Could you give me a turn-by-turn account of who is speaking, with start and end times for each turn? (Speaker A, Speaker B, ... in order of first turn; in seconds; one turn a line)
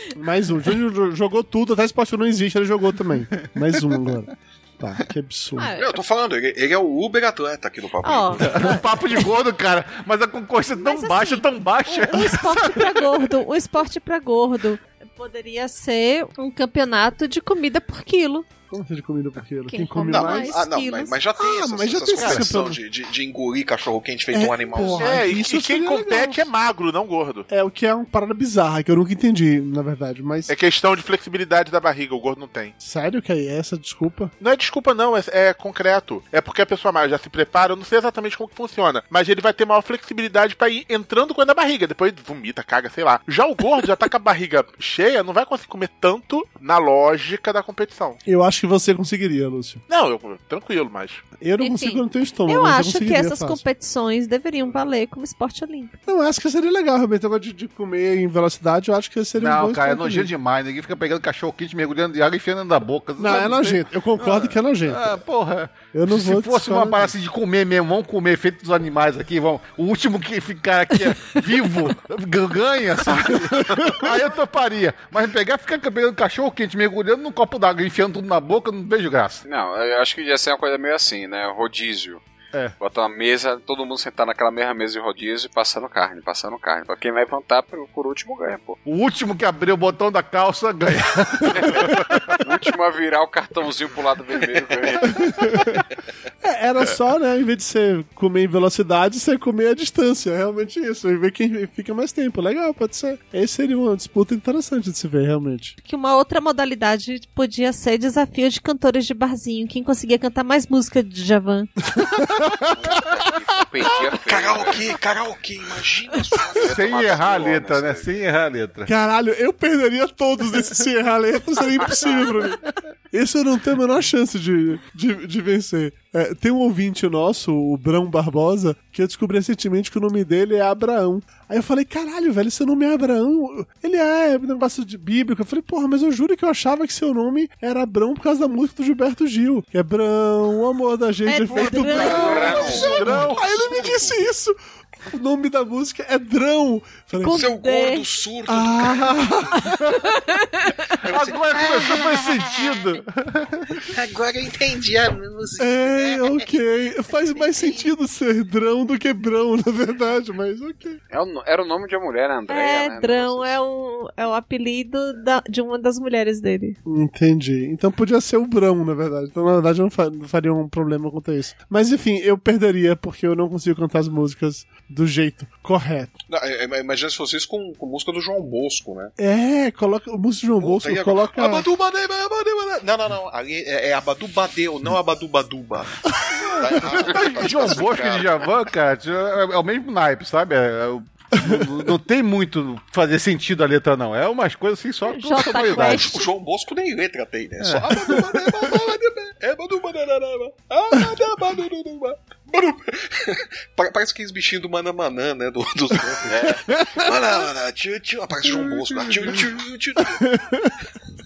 Speaker A: 0.2-5.7
Speaker B: 3.4-4.0
Speaker C: 5.6-5.9
Speaker D: 5.8-8.8
Speaker C: 8.0-8.8
Speaker B: 8.4-13.3
Speaker C: 10.8-18.5
Speaker A: 18.7-20.6
Speaker C: 19.7-21.2
Speaker D: 20.1-25.4
Speaker A: 21.4-22.8
Speaker B: 22.2-22.5
Speaker A: 24.3-26.5
Speaker E: 25.0-27.5
Speaker A: 27.5-30.5
Speaker E: 30.5-32.7
Speaker A: 32.8-34.3
Speaker E: 34.4-48.2
Speaker A: 48.3-49.8
Speaker E: 49.9-51.2
Speaker A: 51.4-53.6
Speaker C: 51.6-56.0
Speaker A: 56.1-60.3
Speaker B: 59.4-79.4
Speaker A: 63.2-65.1
Speaker A: 65.9-67.1
Speaker A: 73.6-74.0
Speaker F: 79.5-82.2
Speaker F: 82.8-88.8
Speaker B: 88.8-92.2
Speaker F: 91.5-95.6
Speaker A: 95.1-95.8
Speaker A: 96.4-105.8
Speaker C: 105.8-111.7
Speaker A: 112.0-112.3
Speaker F: 112.7-115.0
Speaker D: 114.0-118.0
Speaker F: 116.6-118.0
Speaker B: 116.6-118.9
Speaker A: 118.9-144.6
Speaker C: 141.3-143.1
Speaker F: 141.8-143.1
Speaker D: 142.0-144.2
Speaker E: 142.8-143.4
Speaker A: 145.1-147.4
Speaker C: 147.2-148.1
Speaker D: 147.3-149.3
Speaker A: 148.5-149.9
Speaker C: 149.9-150.8
Speaker D: 151.1-152.4
Speaker B: 151.1-153.9
Speaker D: 153.9-156.5
Speaker A: 155.6-161.0
Speaker D: 157.3-157.9
Speaker F: 161.1-163.5
Speaker C: 162.5-166.8
Speaker A: 166.9-176.1
Speaker D: 176.3-179.1
Speaker A: 179.2-181.7
Speaker D: 180.6-188.5
Speaker B: 186.6-196.2
Speaker F: 187.1-187.8
Speaker C: 195.1-196.3
Speaker D: 195.5-210.2
Speaker B: 197.6-198.3
Speaker F: 206.3-206.6
Speaker A: 208.5-209.4
Speaker A: 210.0-210.7